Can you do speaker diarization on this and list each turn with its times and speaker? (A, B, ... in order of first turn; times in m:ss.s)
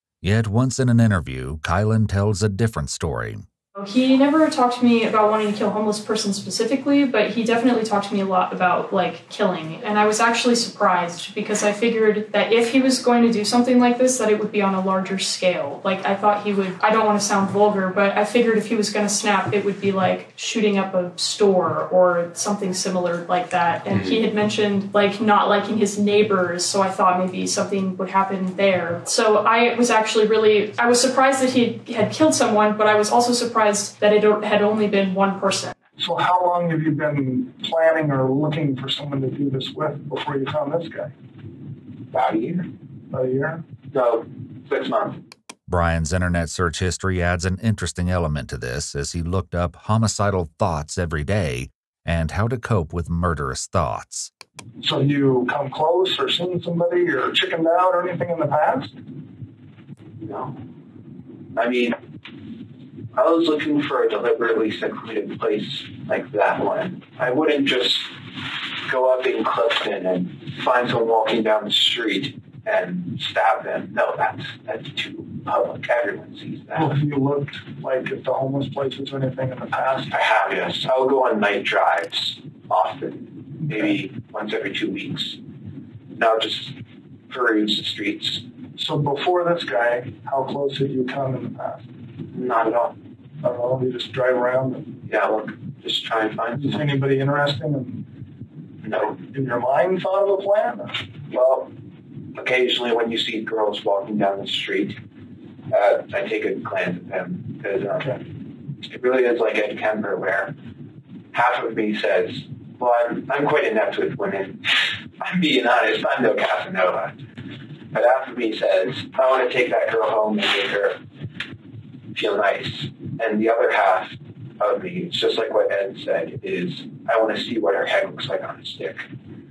0:00.2-0:03.5 A
0:03.8-0:35.7 B
0:36.0-0:41.1 C
0:42.1-0:42.7 D
0:43.1-0:43.6 C
0:43.9-0:45.2 D
0:45.7-0:54.3 A
0:54.8-0:59.0 C
1:00.2-1:00.6 D
1:01.6-1:02.0 D
1:03.2-1:08.1 D
1:08.9-1:17.0 D
1:16.8-1:20.3 C
1:20.1-1:25.4 D
1:23.7-1:24.0 C
1:26.2-1:26.8 D
1:27.3-1:28.4 D
1:28.8-1:31.8 C
1:32.3-1:33.0 D
1:33.4-1:35.0 C
1:35.1-1:37.0 D
1:36.5-1:38.1 C
1:38.8-1:39.2 D
1:39.2-1:40.9 C
1:41.3-1:41.7 D
1:42.4-1:45.0 D
1:45.7-1:48.2 D
1:48.8-1:50.5 D
1:51.3-1:54.6 D
1:55.2-1:57.2 D
1:57.9-2:01.0 D
2:02.1-2:09.1 D